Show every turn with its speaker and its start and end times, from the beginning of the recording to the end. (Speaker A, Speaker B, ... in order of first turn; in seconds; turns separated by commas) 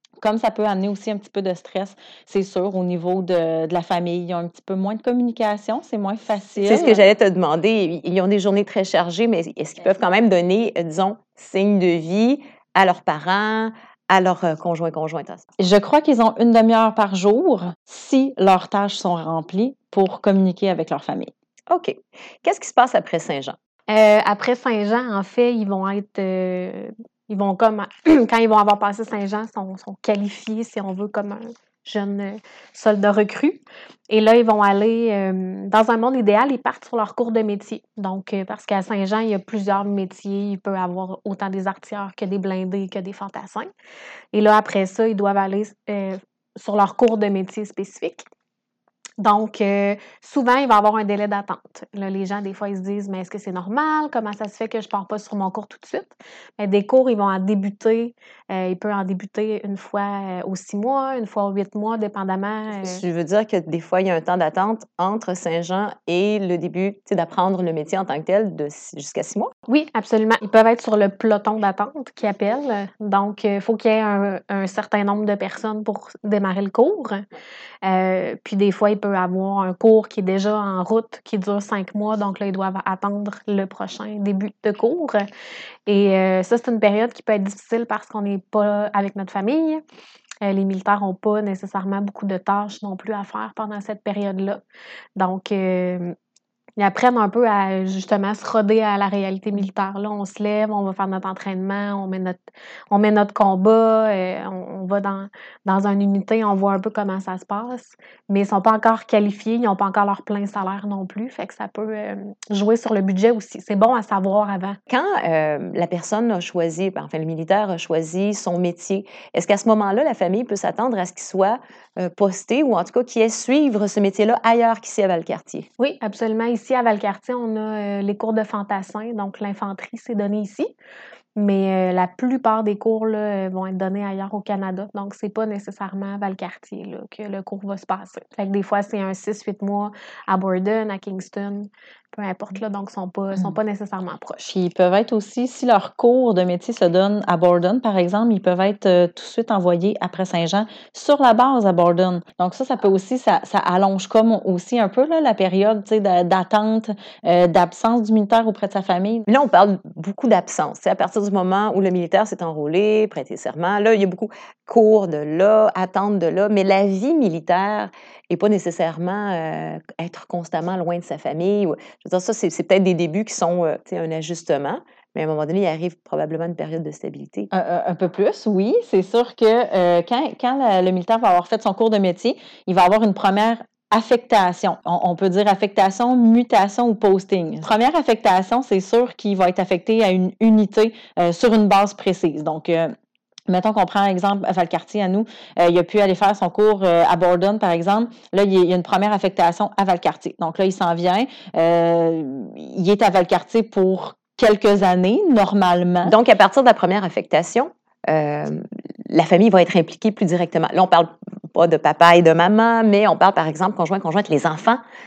Speaker A: 0.2-7.0, Speaker B: 6.6-15.4, Speaker A: 15.6-21.3, Speaker B: 21.7-23.6, Speaker C: 23.9-43.7, Speaker C: 44.3-48.3, Speaker C: 49.2-63.0, Speaker B: 62.8-69.5, Speaker C: 69.7-77.3, Speaker C: 77.8-85.3, Speaker C: 85.9-89.8, Speaker C: 90.4-94.6, Speaker C: 95.2-96.2, Speaker C: 96.8-114.8, Speaker B: 114.9-125.7, Speaker C: 125.8-130.7, Speaker C: 131.4-144.5, Speaker A: 144.5-159.2, Speaker B: 159.3-177.5, Speaker A: 177.5-192.9, Speaker A: 193.5-206.2, Speaker B: 206.0-214.8